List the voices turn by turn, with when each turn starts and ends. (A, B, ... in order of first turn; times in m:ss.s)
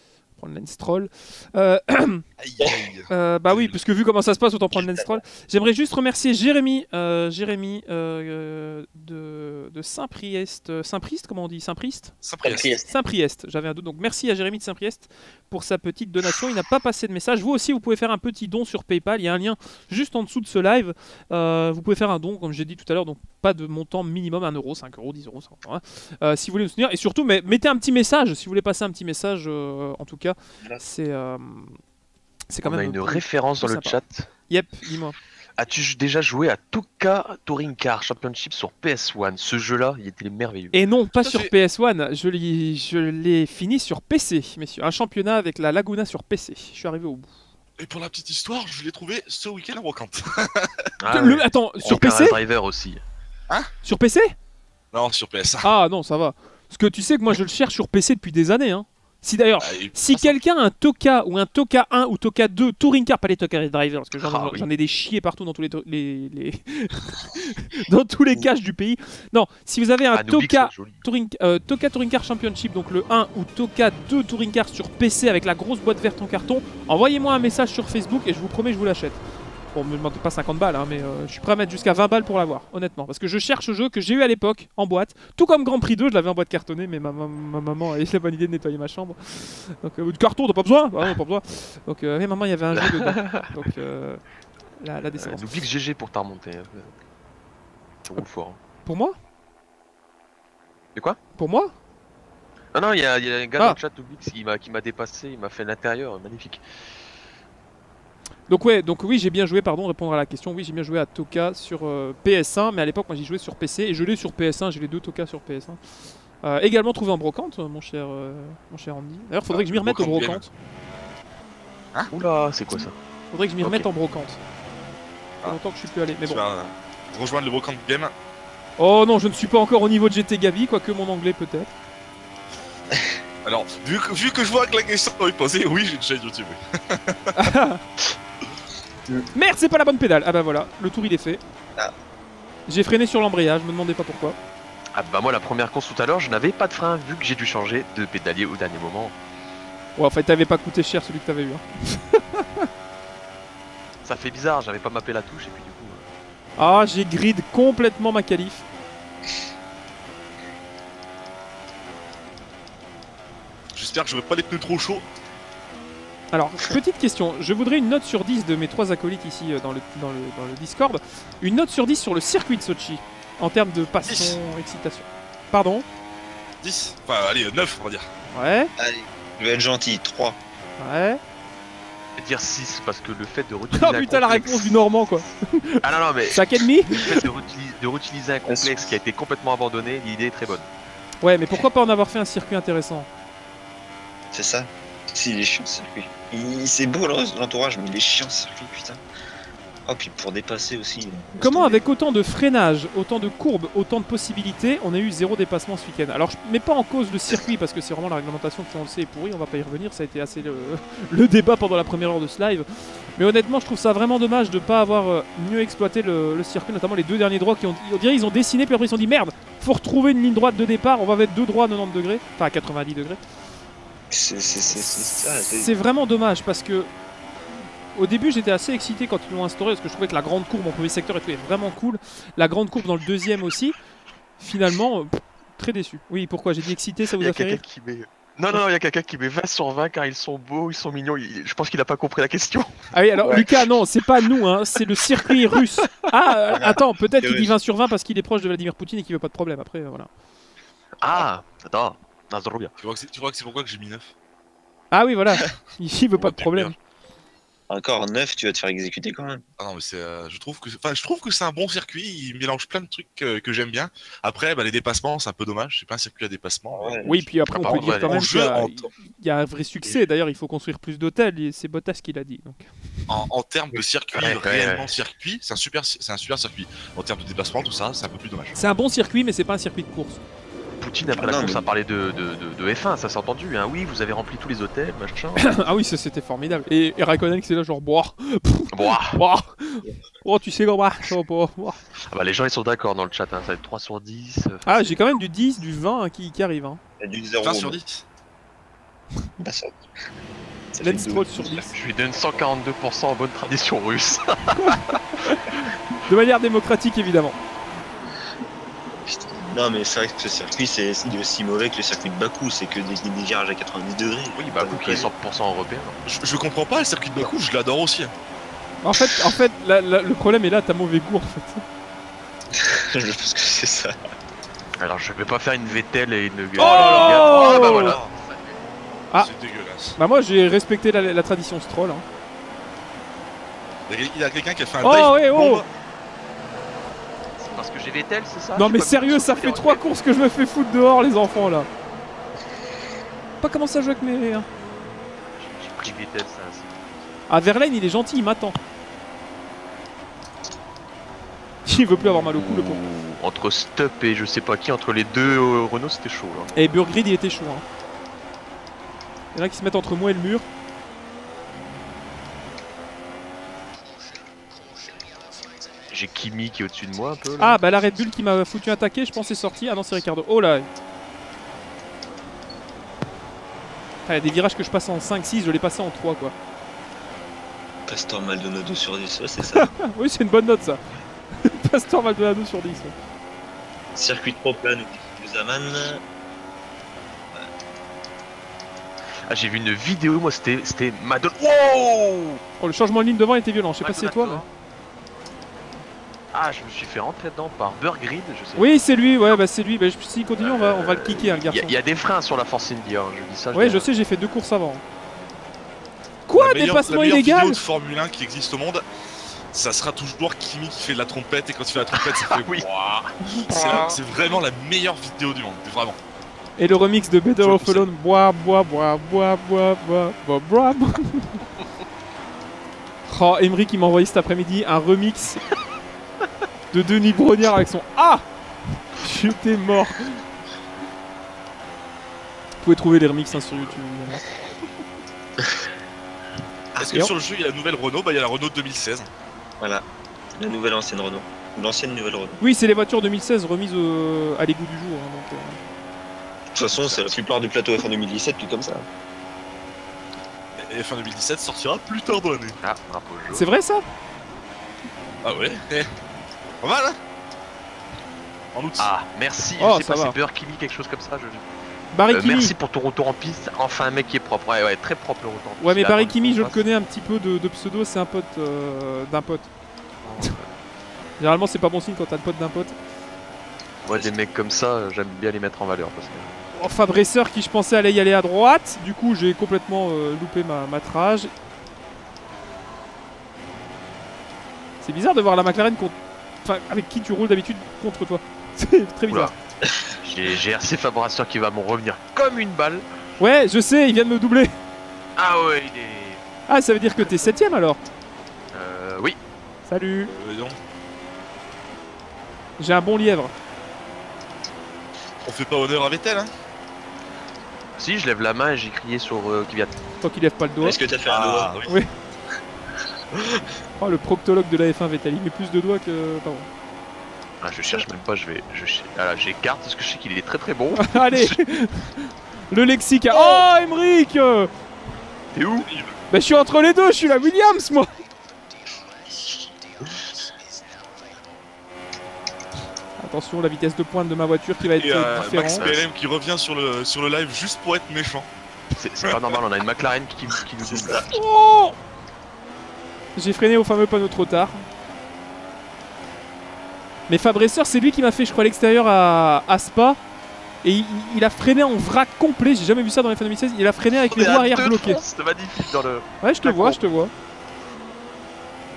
0:00.4-0:02.2 A
0:02.4-0:03.8 B
0:03.1-0:12.1 A
0:04.7-0:05.2 C
0:12.2-0:12.7 B
0:12.4-0:12.9 C
0:12.9-0:31.8 A
0:32.5-0:35.2 A
0:32.6-0:34.3 D
0:35.6-0:40.8 D
0:40.7-0:47.3 A
0:41.2-0:41.5 B
0:47.8-0:50.9 B
0:51.0-0:53.0 D
0:51.1-0:52.4 A
0:53.8-0:54.3 A
0:54.9-0:55.7 B
0:55.6-1:19.2 A
0:59.6-1:00.4 B
1:04.2-1:04.6 D
1:10.1-1:11.0 D
1:19.7-1:34.2 A
1:32.7-1:33.5 D
1:34.8-1:35.4 A
1:35.1-1:37.0 D
1:38.0-1:38.6 D
1:38.8-1:39.1 A
1:41.4-1:41.7 A
1:42.7-1:46.6 D
1:48.5-1:55.8 A
1:56.4-2:00.5 A
1:59.5-2:00.4 B
2:02.1-2:02.9 D
2:03.3-2:04.4 A
2:05.4-2:06.4 A
2:06.2-2:08.1 B
2:08.8-2:11.7 A
2:12.9-2:13.2 C
2:13.4-2:17.5 B
2:17.3-2:17.8 A
2:19.3-2:21.4 A
2:22.7-2:24.4 A
2:24.9-2:29.1 D
2:30.0-2:32.7 A
2:34.0-2:36.1 D
2:36.6-2:38.6 A
2:43.7-2:45.0 B
2:46.3-2:55.8 A
2:54.0-2:54.4 B
2:56.6-2:58.1 B
2:58.3-2:58.7 A
2:58.8-3:00.4 C
3:00.8-3:01.2 A
3:02.2-3:04.8 D
3:03.7-3:07.2 A
3:05.8-3:10.7 D
3:08.4-3:08.9 C
3:11.2-3:13.1 A
3:14.3-3:19.0 C
3:19.8-3:21.8 C
3:21.4-3:43.2 A
3:44.1-3:45.7 C
3:44.8-3:46.9 A
3:47.9-3:53.8 A
3:54.4-3:57.6 A
3:57.2-4:03.5 D
4:02.9-4:10.1 A
4:06.5-4:07.5 C
4:11.0-4:12.7 D
4:12.8-4:14.1 B
4:14.9-4:16.7 A
4:16.1-4:16.7 B
4:17.7-4:19.4 C
4:19.6-4:26.9 B
4:26.8-4:27.2 C
4:27.0-4:32.7 A
4:27.6-4:28.2 D
4:27.7-4:28.9 B
4:33.1-4:38.6 B
4:33.8-4:34.9 D
4:38.5-4:40.2 A
4:40.8-4:45.6 D
4:41.1-4:41.6 C
4:45.4-4:51.8 A
4:48.7-4:49.2 D
4:52.0-4:54.9 D
4:54.6-4:56.8 A
4:57.0-4:57.8 C
4:57.4-4:58.0 B
4:59.4-4:59.8 C
5:00.7-5:01.7 C
5:00.8-5:01.7 A
5:01.7-5:05.0 D
5:04.6-5:07.4 A
5:09.1-5:15.1 C
5:14.4-5:16.0 D
5:16.0-5:18.1 B
5:18.8-5:21.6 A
5:22.5-5:24.0 C
5:24.8-5:29.0 D
5:26.6-5:28.1 B
5:26.6-5:28.0 A
5:29.2-5:30.0 B
5:30.0-5:32.0 A
5:33.9-5:35.7 B
5:34.8-5:35.6 A
5:37.4-5:39.8 D
5:38.6-5:41.7 A
5:43.4-5:44.4 A
5:45.4-5:47.2 D
5:47.3-5:48.6 A
5:51.6-5:52.8 A
5:52.3-5:56.6 D
5:56.5-5:57.6 A
5:59.3-6:00.4 A
6:05.9-6:07.6 D
6:07.4-6:10.7 A
6:14.0-6:16.3 A
6:17.9-6:19.7 C
6:19.5-6:20.8 A
6:21.3-6:22.9 A
6:23.9-6:26.0 C
6:29.3-6:32.4 D
6:32.6-6:34.4 A
6:33.8-6:34.5 D
6:36.3-6:38.7 D
6:38.6-6:41.7 A
6:40.4-6:43.9 D
6:43.5-6:44.8 A
6:46.3-6:47.6 A
6:46.3-6:48.8 B
6:49.5-6:52.6 B
6:51.9-6:53.9 D
6:53.2-6:53.9 A
6:53.5-6:56.0 B
6:56.6-7:01.4 A
6:57.4-6:57.9 D
7:03.1-7:05.4 A
7:06.7-7:08.2 A
7:09.0-7:10.2 A
7:12.6-7:14.2 A
7:13.3-7:14.3 D
7:16.8-7:17.1 C
7:16.8-7:19.1 B
7:20.4-7:22.4 C
7:22.4-7:25.6 A
7:26.5-7:28.8 C
7:30.6-7:32.6 B
7:32.6-7:33.4 D
7:33.3-7:33.8 A
7:35.2-7:35.9 B
7:36.6-7:37.0 B
7:38.5-7:38.9 B
7:38.8-7:41.4 D
7:39.6-7:40.2 A
7:41.9-7:42.5 A
7:42.1-7:46.6 D
7:45.6-7:49.5 A
7:50.0-7:50.5 D
7:51.2-7:52.7 A
7:53.8-7:56.3 D
7:56.5-8:01.3 A
8:04.8-8:09.3 A
8:10.0-8:12.9 D
8:13.2-8:14.5 A
8:15.2-8:16.2 D
8:16.5-8:17.8 A
8:18.5-8:19.2 D
8:19.7-8:20.1 A
8:20.1-8:20.6 B
8:22.6-8:23.3 A
8:25.2-8:26.3 B
8:27.8-8:29.8 D
8:30.0-8:30.8 A
8:30.6-8:31.6 C
8:31.0-8:31.8 B
8:33.1-8:33.4 C
8:33.8-8:36.5 A
8:37.4-8:41.4 D
8:40.7-8:44.5 A
8:43.1-8:43.4 D
8:45.3-8:45.7 D
8:45.6-8:45.9 B
8:46.1-8:47.9 A
8:53.0-8:55.6 A
8:54.7-8:58.3 B
8:55.5-8:55.8 D
8:58.7-9:01.1 D
9:00.6-9:01.1 C
9:01.1-9:01.8 A
9:03.2-9:04.6 A
9:07.1-9:10.0 A
9:10.6-9:15.0 A
9:14.1-9:16.8 D
9:16.2-9:17.1 A